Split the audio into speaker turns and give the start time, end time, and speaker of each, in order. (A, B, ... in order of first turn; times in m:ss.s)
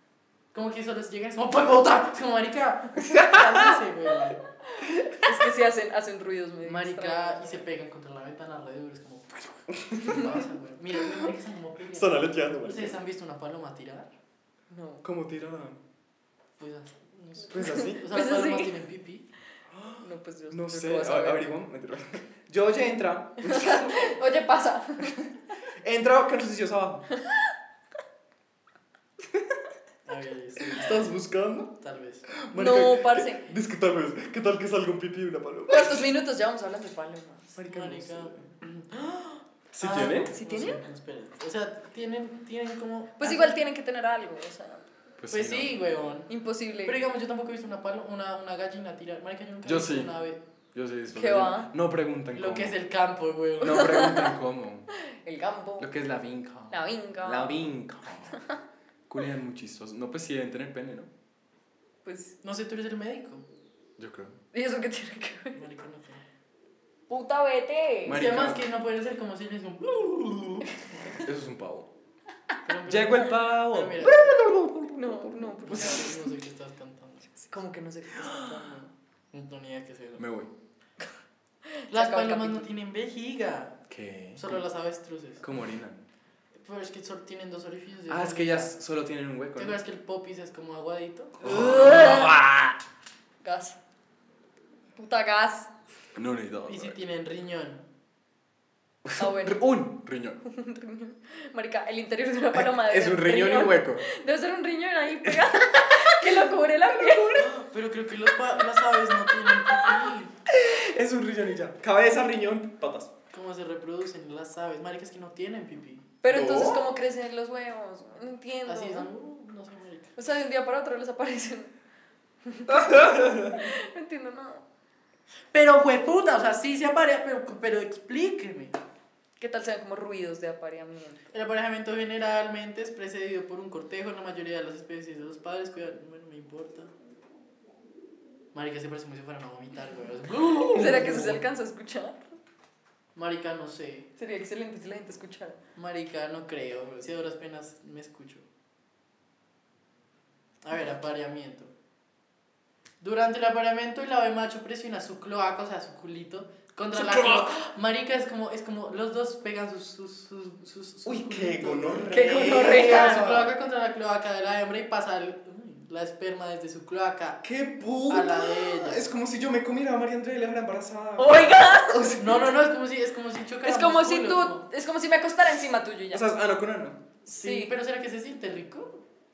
0:00.5-0:04.4 A
0:03.0-0:03.7 B
0:04.8-0:07.6 C
0:06.6-0:14.1 A
0:09.8-0:10.4 B
0:11.9-0:13.0 B
0:14.7-0:15.0 C
0:15.0-0:15.8 B
0:16.6-0:19.2 A
0:17.5-0:18.0 B
0:17.6-0:18.7 C
0:19.7-0:24.2 B
0:20.0-0:21.5 C
0:23.4-0:25.2 C
0:25.8-0:27.0 B
0:27.2-0:27.5 C
0:30.0-0:31.1 A
0:30.6-0:31.7 B
0:31.8-0:32.3 A
0:32.3-0:36.1 B
0:32.5-0:33.4 C
0:35.7-0:37.6 C
0:37.6-0:38.5 B
0:37.6-0:39.2 A
0:39.7-0:40.3 B
0:39.8-0:43.6 A
0:40.3-0:40.8 C
0:43.2-0:44.8 C
0:45.2-0:45.8 B
0:45.3-0:46.3 A
0:46.3-0:47.0 C
0:46.8-0:50.4 A
0:49.6-0:50.1 B
0:50.7-0:52.8 B
0:51.1-0:51.7 C
0:52.3-0:54.2 A
0:53.6-0:54.9 B
0:53.6-0:54.3 C
0:55.1-0:55.9 C
0:55.8-0:58.4 B
0:56.7-0:57.7 C
0:59.1-1:01.1 B
1:02.0-1:02.4 C
1:02.4-1:03.4 A
1:04.0-1:04.4 B
1:04.5-1:05.6 C
1:05.5-1:06.2 A
1:07.1-1:08.2 C
1:08.0-1:08.6 B
1:08.1-1:11.2 A
1:11.2-1:11.9 B
1:12.6-1:14.4 A
1:12.8-1:16.0 B
1:14.8-1:16.2 C
1:15.7-1:17.4 A
1:17.4-1:18.9 C
1:18.2-1:18.6 B
1:19.3-1:20.2 A
1:20.2-1:20.5 B
1:21.7-1:22.7 C
1:21.9-1:23.8 A
1:23.9-1:24.6 B
1:24.4-1:25.4 A
1:25.4-1:26.0 B
1:26.6-1:28.7 A
1:28.1-1:29.8 B
1:29.6-1:31.5 A
1:31.4-1:32.8 B
1:31.5-1:32.3 C
1:33.4-1:33.8 C
1:35.0-1:35.7 C
1:36.1-1:37.0 B
1:36.7-1:37.8 A
1:39.0-1:40.4 B
1:39.2-1:39.6 C
1:40.4-1:47.5 C
1:42.5-1:44.0 B
1:45.2-1:45.6 B
1:46.9-1:47.5 B
1:47.4-1:50.3 A
1:50.5-1:53.1 B
1:53.3-1:56.1 A
1:56.2-1:59.1 C
1:56.3-1:56.9 B
1:58.6-2:00.1 A
2:00.2-2:01.7 C
2:02.4-2:04.6 C
2:02.7-2:03.7 B
2:05.5-2:08.8 A
2:09.4-2:11.2 C
2:11.3-2:16.9 A
2:18.5-2:21.4 A
2:20.7-2:22.4 C
2:23.2-2:24.1 A
2:24.2-2:25.6 C
2:25.8-2:28.4 A
2:30.6-2:31.7 A
2:33.0-2:47.4 A
2:36.9-2:37.5 B
2:41.0-2:43.5 B
2:42.0-2:43.4 C
2:47.4-2:52.4 B
2:48.1-2:49.1 A
2:51.2-2:52.2 C
2:52.2-2:54.6 A
2:53.6-2:56.2 C
2:56.1-2:57.0 B
2:57.3-2:57.7 C
2:57.3-2:59.0 A